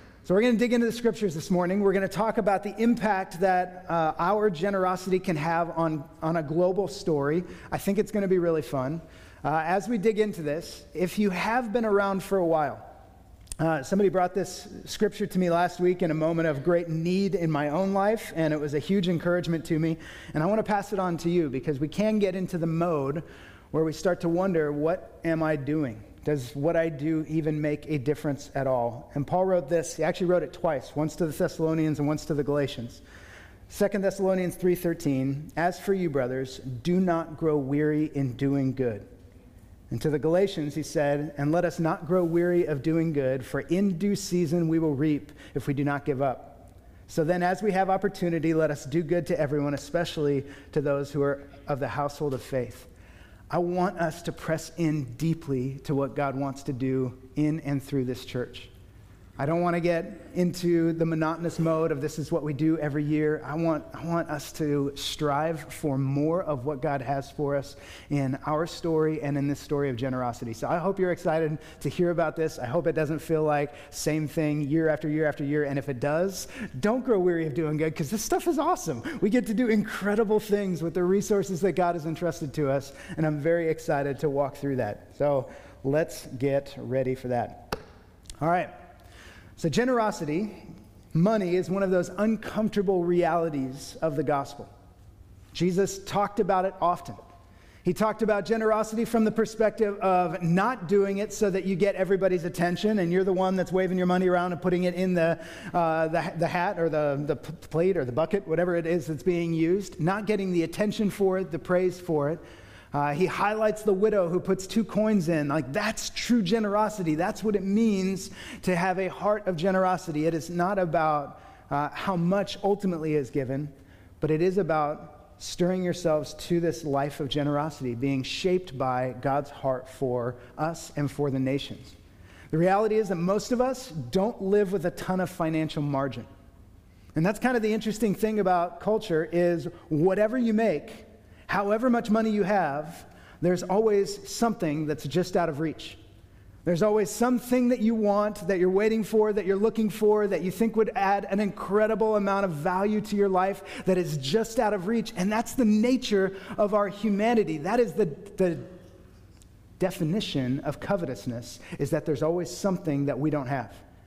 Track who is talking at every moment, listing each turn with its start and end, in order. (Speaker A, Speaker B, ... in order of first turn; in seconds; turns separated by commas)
Speaker A: 0.2-12.9, Speaker A: 13.6-33.0, Speaker A: 33.7-39.1, Speaker A: 39.9-52.9, Speaker A: 53.5-58.7, Speaker A: 59.4-87.8, Speaker A: 88.4-88.7, Speaker A: 89.6-94.7, Speaker A: 95.5-97.2, Speaker A: 97.8-112.4, Speaker A: 112.9-131.9, Speaker A: 132.5-136.3, Speaker A: 137.2-146.0, Speaker A: 146.7-158.7, Speaker A: 159.8-163.8